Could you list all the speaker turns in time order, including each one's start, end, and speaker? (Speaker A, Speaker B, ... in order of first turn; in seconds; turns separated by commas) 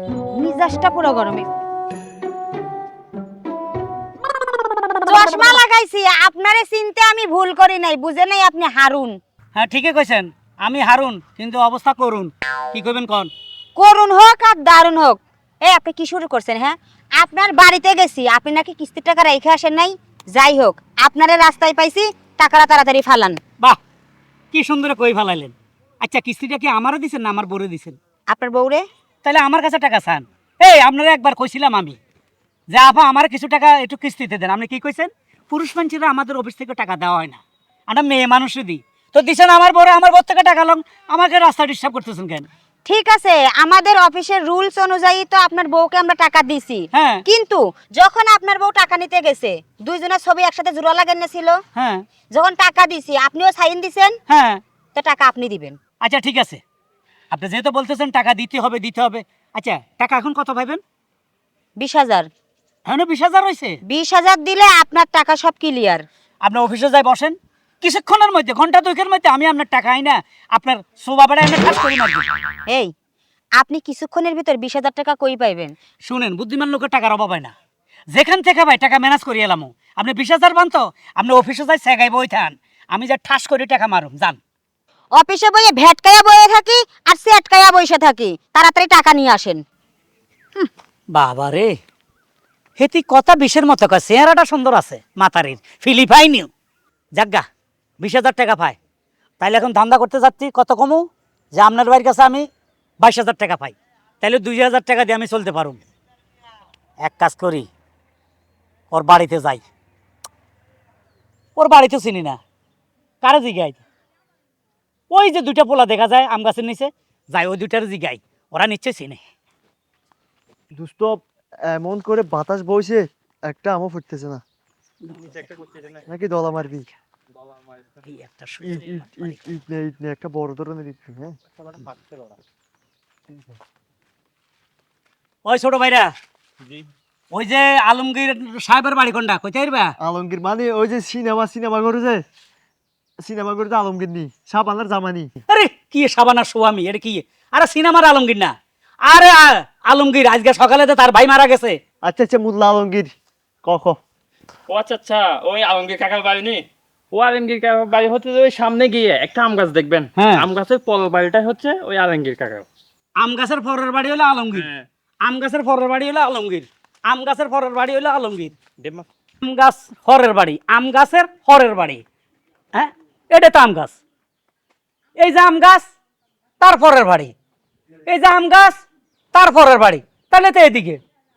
Speaker A: 0.3-1.5, Speaker A: 5.0-9.2, Speaker B: 9.6-13.3, Speaker A: 13.8-23.4, Speaker B: 24.5-28.0, Speaker A: 28.3-28.8, Speaker B: 29.2-32.0, Speaker B: 32.7-42.5, Speaker A: 42.9-51.6, Speaker B: 46.9-47.2, Speaker B: 51.7-52.0, Speaker A: 52.3-54.1, Speaker B: 54.3-54.6, Speaker A: 54.9-55.8, Speaker B: 56.0-56.6, Speaker B: 57.3-60.8, Speaker A: 61.8-62.3, Speaker B: 62.9-63.8, Speaker A: 63.8-66.0, Speaker B: 66.4-72.3, Speaker A: 72.7-72.9, Speaker A: 73.6-75.7, Speaker B: 76.0-77.5, Speaker B: 78.1-84.4, Speaker A: 85.2-89.6, Speaker B: 91.1-91.7, Speaker B: 92.8-96.5, Speaker B: 97.1-97.4, Speaker B: 98.0-98.8, Speaker B: 99.4-102.5, Speaker B: 103.0-105.8, Speaker B: 107.0-107.7, Speaker B: 108.9-109.6, Speaker B: 111.5-112.4, Speaker B: 113.2-113.8, Speaker B: 115.1-119.2, Speaker C: 120.7-124.4, Speaker B: 125.1-125.5, Speaker C: 126.0-126.9, Speaker B: 128.0-129.4, Speaker C: 128.6-131.4, Speaker D: 131.8-132.3, Speaker B: 135.4-136.1, Speaker B: 137.3-139.9, Speaker C: 140.0-142.2, Speaker C: 143.2-145.3, Speaker B: 145.5-148.5, Speaker B: 149.1-151.8, Speaker C: 152.0-154.0, Speaker D: 154.7-162.7, Speaker B: 160.2-160.4, Speaker B: 163.2-164.7, Speaker D: 164.5-164.8, Speaker B: 165.2-168.5, Speaker D: 168.8-169.1, Speaker B: 169.4-172.0, Speaker B: 172.7-174.0, Speaker B: 175.2-175.9, Speaker B: 176.6-177.3, Speaker B: 178.1-178.8, Speaker B: 179.3-181.0